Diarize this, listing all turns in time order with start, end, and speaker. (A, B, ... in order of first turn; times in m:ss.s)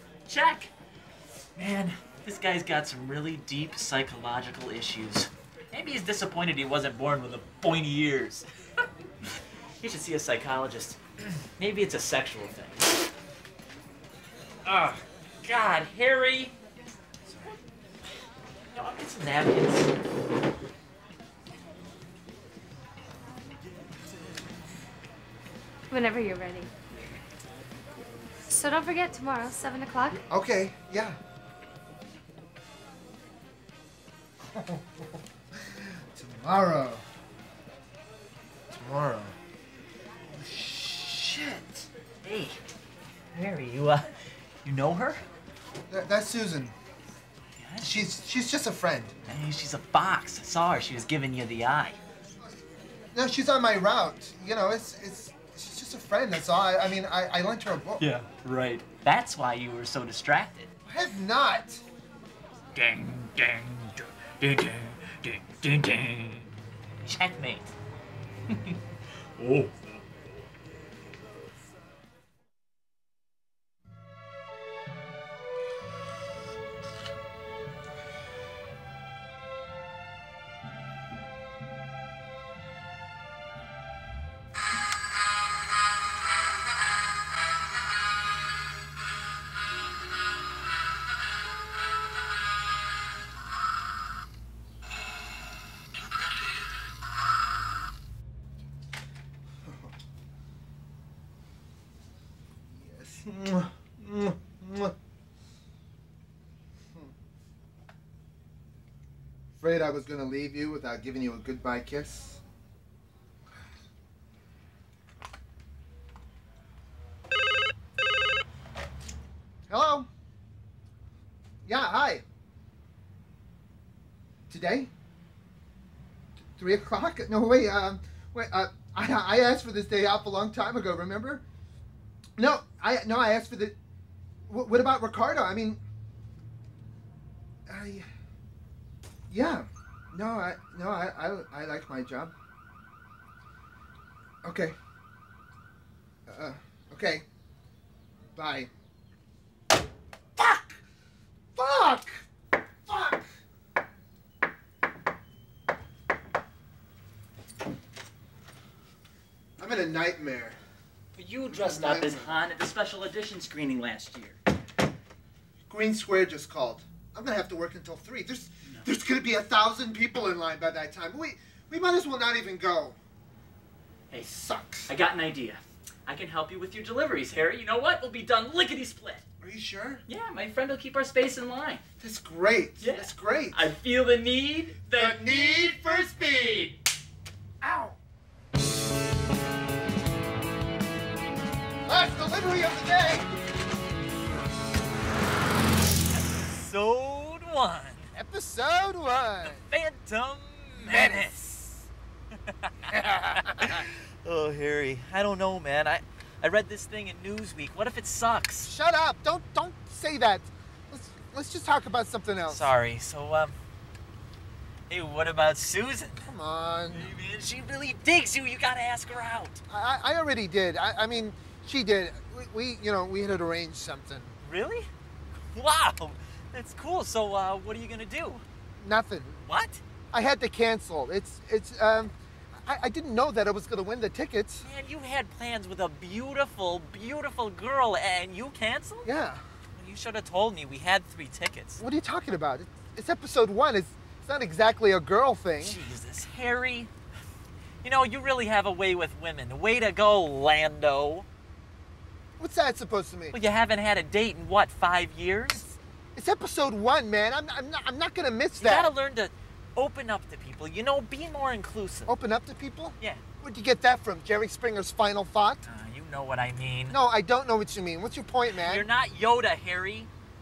0:00.3-0:00.7 A
0:01.6-0:08.5 A
0:09.8-0:11.0 A
0:11.6-0:13.0 A
0:14.6-0:16.5 A
0:18.8-0:19.9 A
0:25.9-0:26.7 B
0:28.5-0:30.2 B
0:30.1-0:31.2 C
0:34.4-0:35.1 C
0:35.6-0:37.0 C
0:38.7-0:39.4 C
0:40.4-0:42.6 A
0:40.5-0:41.0 C
0:43.3-0:44.1 A
0:44.6-0:45.2 A
0:45.9-0:46.7 C
0:47.6-0:48.0 A
0:47.8-0:49.1 C
0:49.3-0:52.0 A
0:53.1-0:58.1 C
0:58.0-1:00.7 A
1:00.9-1:01.8 C
1:02.8-1:06.5 A
1:07.0-1:07.7 A
1:08.5-1:08.8 A
1:09.4-1:09.8 A
1:39.6-1:39.9 C
1:42.7-1:45.0 C
1:49.6-1:52.4 C
1:59.7-2:00.1 C
2:01.7-2:02.2 C
2:04.5-2:04.9 C
2:06.6-2:11.4 C
2:12.4-2:13.8 C
2:14.5-2:15.8 C
2:17.7-2:18.1 C
2:19.3-2:22.3 C
2:24.4-2:24.8 C
2:26.3-2:27.2 C
2:28.4-2:28.7 C
2:30.4-2:30.8 C
2:31.6-2:32.2 C
2:32.9-2:33.3 C
2:39.6-2:40.6 C
2:41.2-2:44.4 A
2:41.5-2:42.4 C
2:45.7-2:53.0 C
2:54.1-2:54.9 C
2:54.9-2:59.2 A
2:59.4-3:00.0 C
3:00.1-3:01.8 A
3:02.0-3:03.6 C
3:02.8-3:06.8 A
3:04.9-3:06.7 C
3:07.6-3:08.0 C
3:11.9-3:13.3 C
3:16.3-3:18.1 A
3:18.1-3:19.6 C
3:19.5-3:21.7 A
3:20.8-3:21.6 C
3:22.5-3:28.7 A
3:22.9-3:23.9 C
3:28.6-3:32.7 C
3:32.5-3:33.6 A
3:34.9-3:36.2 A
3:36.2-3:37.1 C
3:36.9-3:39.6 A
3:39.7-3:44.4 C
3:44.4-3:44.9 A
3:45.5-3:48.4 A
3:48.8-3:49.4 C
3:49.4-3:49.8 A
3:50.1-3:54.6 C
3:54.6-3:59.1 A
3:59.0-3:59.4 C
3:59.8-4:01.8 A
4:01.8-4:05.8 C
4:05.6-4:06.9 A
4:07.8-4:11.3 A
4:12.4-4:13.4 C
4:13.3-4:15.6 A
4:15.5-4:18.9 C
4:18.6-4:22.1 A
4:22.1-4:25.6 C
4:25.7-4:27.0 A
4:26.9-4:28.9 C
4:28.5-4:30.1 A